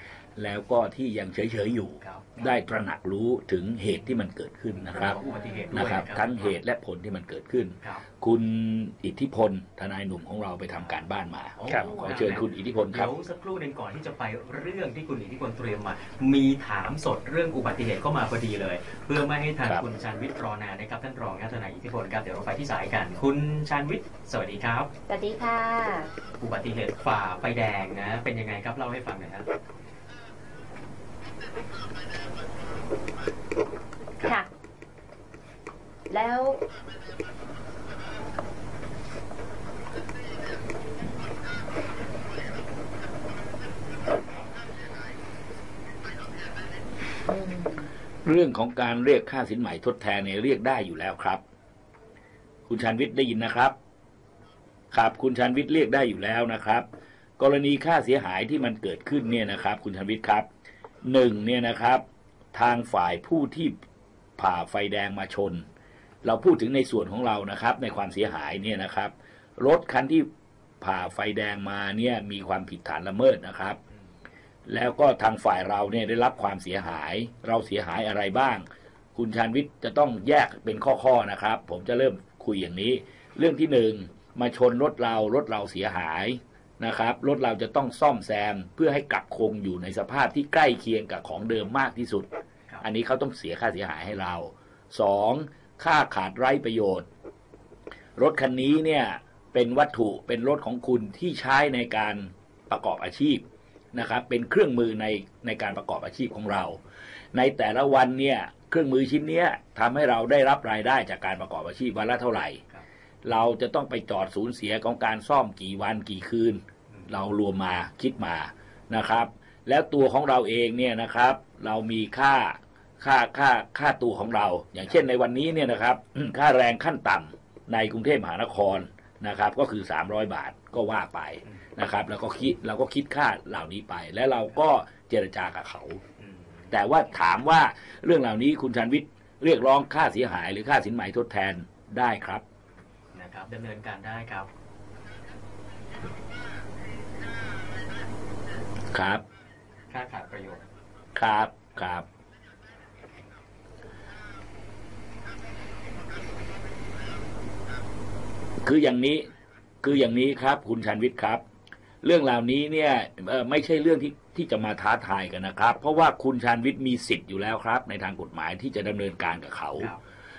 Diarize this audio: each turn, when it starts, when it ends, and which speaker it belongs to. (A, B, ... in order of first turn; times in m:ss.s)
0:00.4-0:05.2 A
0:02.0-0:02.3 B
0:04.9-0:06.6 B
0:05.2-0:05.8 C
0:05.7-0:13.1 A
0:11.6-0:24.9 B
0:25.1-0:26.1 C
0:26.4-0:29.5 B
0:34.2-0:34.5 C
0:36.1-0:36.6 C
0:47.3-0:47.9 C
0:48.2-0:51.4 A
0:52.7-0:53.7 A
0:54.9-0:56.9 A
0:57.4-1:00.5 A
1:01.0-1:03.7 A
1:04.4-1:05.6 A
1:06.2-1:10.3 A
1:10.8-1:13.8 A
1:14.7-1:32.3 A
1:32.8-1:37.1 A
1:38.2-1:43.4 A
1:43.9-1:46.8 A
1:47.3-1:52.6 A
1:53.2-2:16.0 A
2:16.2-2:16.7 B
2:16.7-2:22.4 A
2:23.1-2:24.5 B
2:28.9-2:29.2 A
2:29.9-2:30.6 B
2:31.1-2:32.0 A
2:38.6-2:39.2 A
2:39.8-2:41.4 A
2:42.0-2:49.9 A